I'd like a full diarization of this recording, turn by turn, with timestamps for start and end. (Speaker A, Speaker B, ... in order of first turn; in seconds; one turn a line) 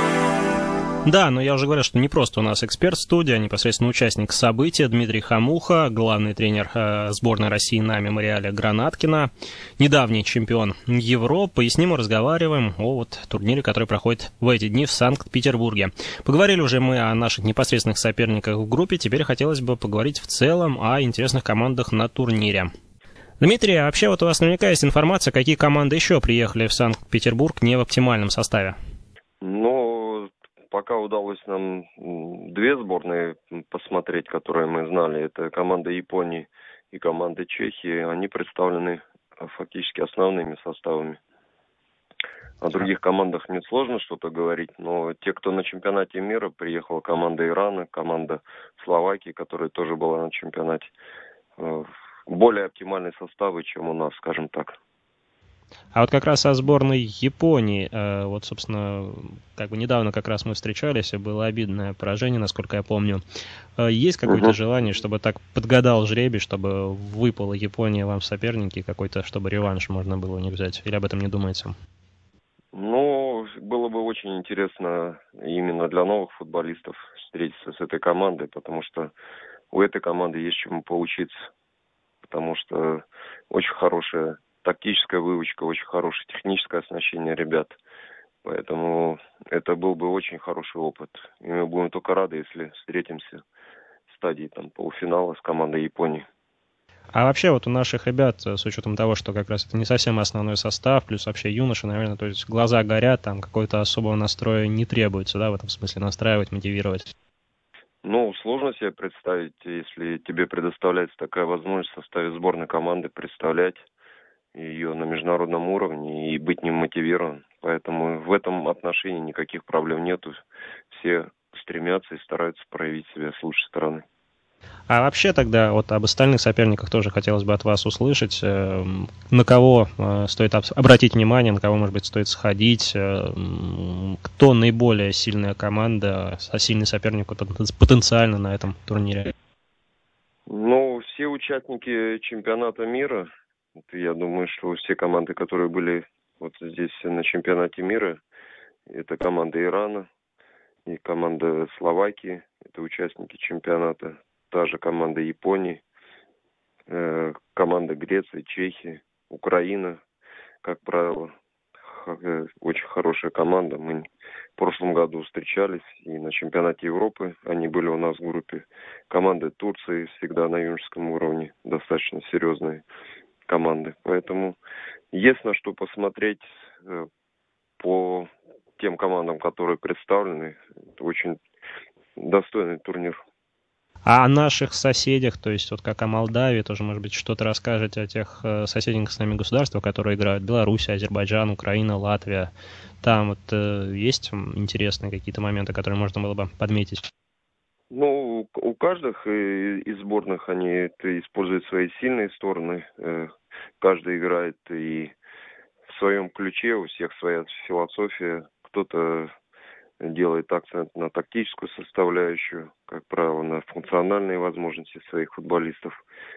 Speaker A: 1.1-22.7
Speaker A: 23.4-28.8
Speaker B: 29.4-41.2
Speaker B: 42.6-50.9
Speaker B: 51.6-54.8
Speaker A: 55.9-63.2
Speaker A: 63.8-71.7
Speaker B: 64.3-64.5
Speaker B: 72.7-79.1
Speaker B: 79.7-81.3
Speaker B: 82.2-87.8
Speaker B: 88.4-93.4
Speaker B: 94.1-96.2
Speaker A: 97.1-107.1
Speaker B: 108.0-113.8
Speaker B: 114.5-120.4
Speaker B: 120.9-124.0
Speaker A: 124.9-139.3
Speaker B: 140.5-148.2
Speaker B: 148.9-150.1
Speaker B: 150.9-155.8
Speaker B: 156.9-160.0
Speaker B: 160.6-161.3
Speaker B: 161.9-172.8
Speaker B: 173.5-174.6
Speaker B: 175.1-177.1
Speaker B: 177.8-181.4
Speaker B: 182.2-183.2
Speaker A: 184.1-192.5
Speaker A: 193.0-197.1
Speaker B: 197.9-205.1
Speaker B: 205.9-209.3
Speaker B: 210.0-216.0